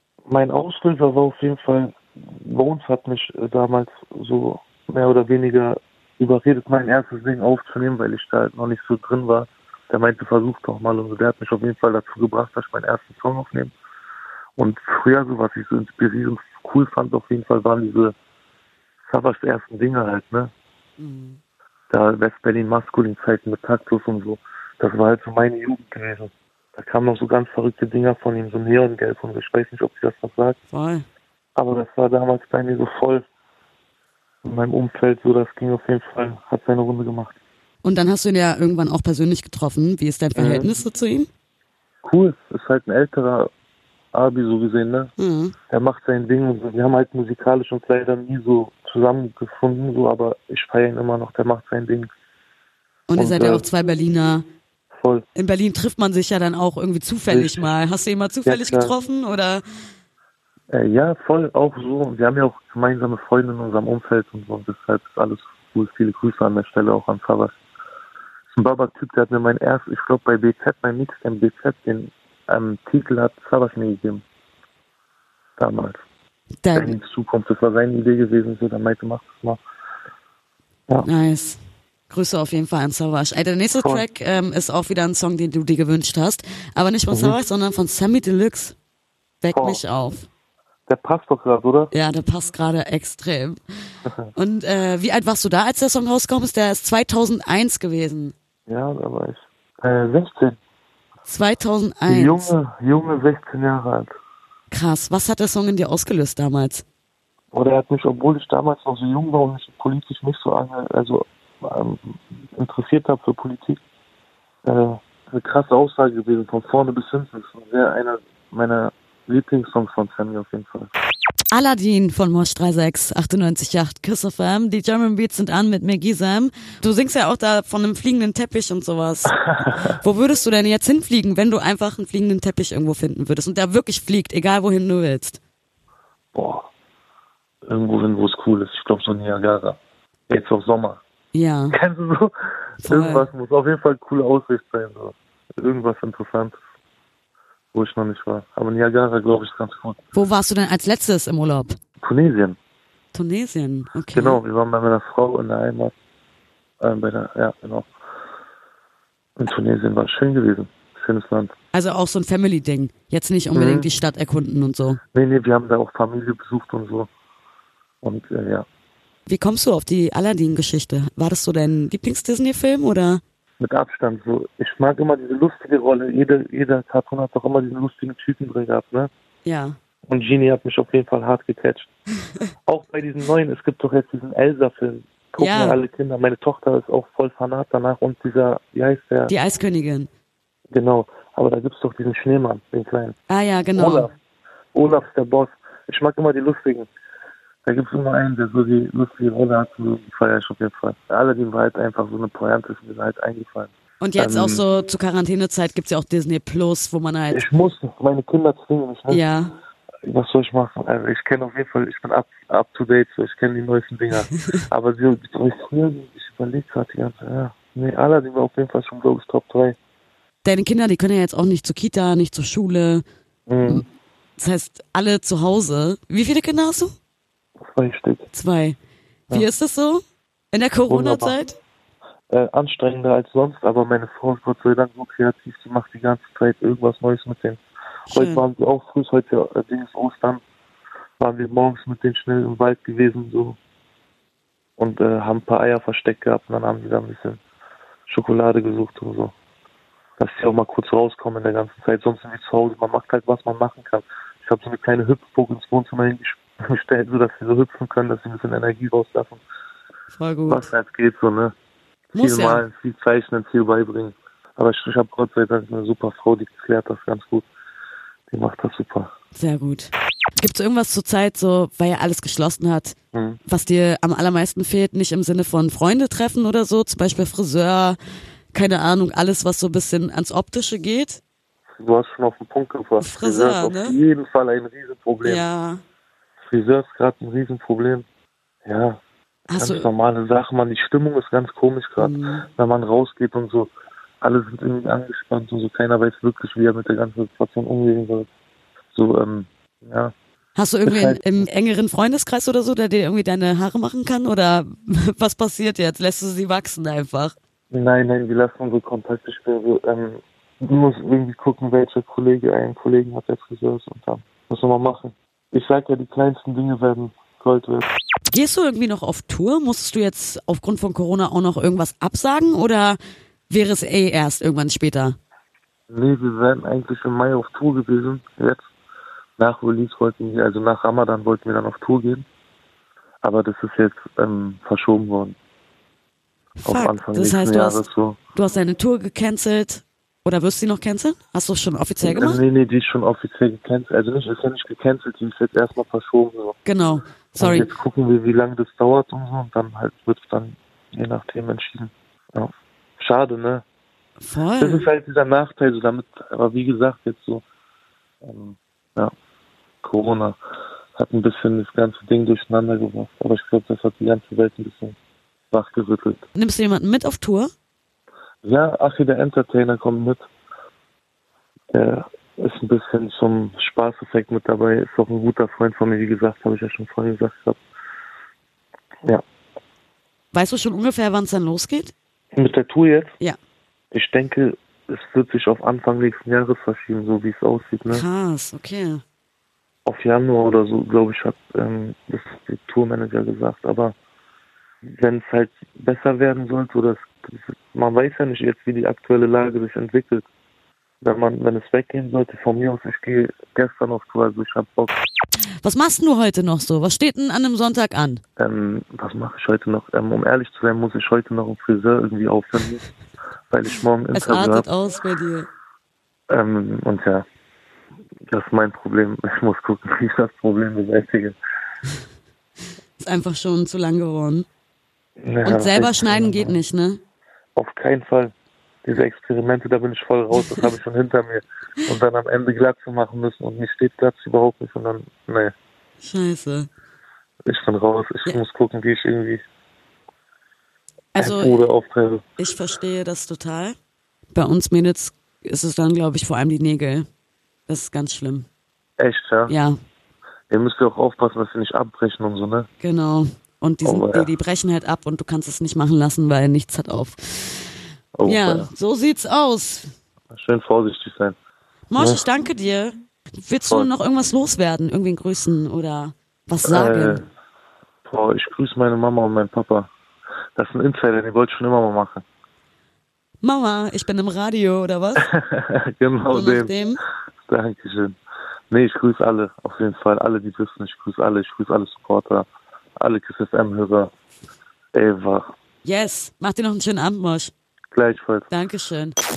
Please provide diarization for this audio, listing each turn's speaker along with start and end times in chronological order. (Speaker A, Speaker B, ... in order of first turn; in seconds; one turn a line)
Speaker A: 0.3-13.8
Speaker A: 14.6-18.1
Speaker A: 19.1-20.5
Speaker B: 21.0-21.4
Speaker A: 21.9-30.6
Speaker B: 30.7-31.1
Speaker A: 31.6-33.2
Speaker A: 34.4-37.4
Speaker B: 37.8-41.3
Speaker A: 40.4-40.8
Speaker A: 42.0-43.5
Speaker A: 44.1-45.1
Speaker B: 45.2-45.5
Speaker A: 45.7-52.1
Speaker B: 53.1-54.5
Speaker A: 53.2-53.6
Speaker A: 55.0-55.2
Speaker B: 55.4-59.6
Speaker A: 57.3-57.7
Speaker A: 58.5-59.0
Speaker A: 60.7-67.5
Speaker A: 68.5-74.2
Speaker A: 75.6-76.0
Speaker B: 76.6-77.0
Speaker A: 76.7-79.6
Speaker B: 81.0-88.8
Speaker A: 83.8-84.0
Speaker A: 87.1-87.4
Speaker B: 89.4-90.3
Speaker A: 89.5-89.8
Speaker A: 90.9-91.9
Speaker B: 91.9-93.6
Speaker B: 94.3-98.3
Speaker A: 98.7-100.6
Speaker B: 101.3-102.5
Speaker A: 102.1-104.1
Speaker B: 104.7-106.8
Speaker A: 107.5-113.8
Speaker A: 114.7-120.9
Speaker B: 121.5-135.4
Speaker A: 136.3-136.7
Speaker A: 137.7-139.8
Speaker A: 140.3-141.0
Speaker B: 141.3-141.8
Speaker A: 141.7-146.6
Speaker B: 142.8-143.3
Speaker A: 147.7-150.0
Speaker B: 150.1-151.8
Speaker A: 152.0-152.6
Speaker B: 153.1-154.4
Speaker A: 154.1-155.9
Speaker A: 156.8-157.9
Speaker A: 159.4-161.5
Speaker B: 161.7-165.0
Speaker A: 163.6-163.9
Speaker A: 165.1-167.1
Speaker A: 168.0-168.7
Speaker B: 169.3-173.2
Speaker A: 173.6-179.1
Speaker B: 179.4-179.8
Speaker A: 180.1-181.9
Speaker A: 182.7-189.3
Speaker B: 185.4-185.8
Speaker B: 189.3-190.1
Speaker A: 190.7-193.2
Speaker B: 193.3-194.1
Speaker A: 193.8-194.1
Speaker A: 194.7-196.9
Speaker A: 197.7-204.6
Speaker B: 204.0-207.5
Speaker A: 207.3-209.2
Speaker B: 209.1-209.5
Speaker A: 210.1-219.8
Speaker B: 220.4-223.0
Speaker A: 223.5-223.8
Speaker B: 224.4-226.9
Speaker A: 227.6-228.3
Speaker B: 228.3-228.8
Speaker B: 229.3-231.6
Speaker A: 230.9-231.4
Speaker A: 232.3-237.6
Speaker B: 238.1-238.4
Speaker A: 238.1-240.4
Speaker A: 241.2-243.6
Speaker A: 244.8-247.4
Speaker A: 248.1-249.3
Speaker A: 250.2-259.4
Speaker B: 260.1-260.7
Speaker A: 260.5-261.5
Speaker A: 262.1-267.5
Speaker B: 262.1-262.6
Speaker A: 268.3-269.1
Speaker B: 269.4-272.9
Speaker A: 273.1-273.4
Speaker B: 273.5-278.0
Speaker B: 278.5-281.2
Speaker A: 281.8-285.4
Speaker B: 283.0-284.0
Speaker B: 285.2-285.8
Speaker A: 286.5-288.1
Speaker A: 288.7-289.0
Speaker B: 289.5-289.9
Speaker A: 289.6-293.7
Speaker B: 292.0-292.4
Speaker A: 294.2-298.3
Speaker A: 298.9-300.1
Speaker B: 300.6-307.4
Speaker A: 300.9-301.5
Speaker A: 307.7-317.9
Speaker B: 318.3-323.0
Speaker B: 323.5-325.2
Speaker A: 325.9-328.7
Speaker A: 329.4-332.3
Speaker A: 333.2-335.4
Speaker B: 336.6-342.4
Speaker A: 336.6-338.2
Speaker A: 342.0-346.6
Speaker B: 346.6-347.7
Speaker A: 347.4-353.6
Speaker B: 354.2-354.9
Speaker A: 354.6-357.4
Speaker A: 358.2-359.1
Speaker A: 359.8-360.4
Speaker A: 361.0-365.0
Speaker A: 365.5-366.2
Speaker B: 366.4-367.5
Speaker A: 368.4-370.3
Speaker A: 371.7-377.6
Speaker B: 380.3-381.9
Speaker A: 382.4-383.1
Speaker A: 383.9-388.0
Speaker B: 387.9-389.0
Speaker A: 389.9-393.9
Speaker A: 395.0-400.3
Speaker A: 401.0-404.9
Speaker B: 405.6-408.2
Speaker A: 408.4-412.9
Speaker A: 413.5-414.7
Speaker B: 414.1-415.5
Speaker A: 416.3-417.2
Speaker A: 418.3-421.4
Speaker B: 423.0-424.5
Speaker A: 425.2-426.6
Speaker B: 425.4-427.0
Speaker A: 427.6-428.3
Speaker A: 428.9-435.5
Speaker B: 436.0-436.7
Speaker A: 437.5-439.4
Speaker B: 441.1-441.6
Speaker A: 441.2-442.2
Speaker B: 442.4-443.8
Speaker B: 444.3-447.1
Speaker B: 447.7-448.5
Speaker A: 449.0-449.6
Speaker B: 449.5-449.8
Speaker A: 450.5-452.7
Speaker B: 452.8-457.6
Speaker A: 453.8-454.3
Speaker A: 458.2-458.7
Speaker B: 458.2-459.9
Speaker A: 460.3-461.4
Speaker B: 461.9-467.2
Speaker A: 462.0-462.2
Speaker A: 463.7-463.9
Speaker A: 466.6-467.3
Speaker A: 468.1-469.9
Speaker A: 470.6-472.2
Speaker B: 473.4-475.3
Speaker A: 475.2-476.7
Speaker B: 476.3-477.0
Speaker A: 477.5-478.2
Speaker A: 478.7-482.5
Speaker A: 483.0-484.1
Speaker A: 484.9-485.5
Speaker B: 485.8-487.5
Speaker A: 487.9-488.5
Speaker B: 488.5-489.1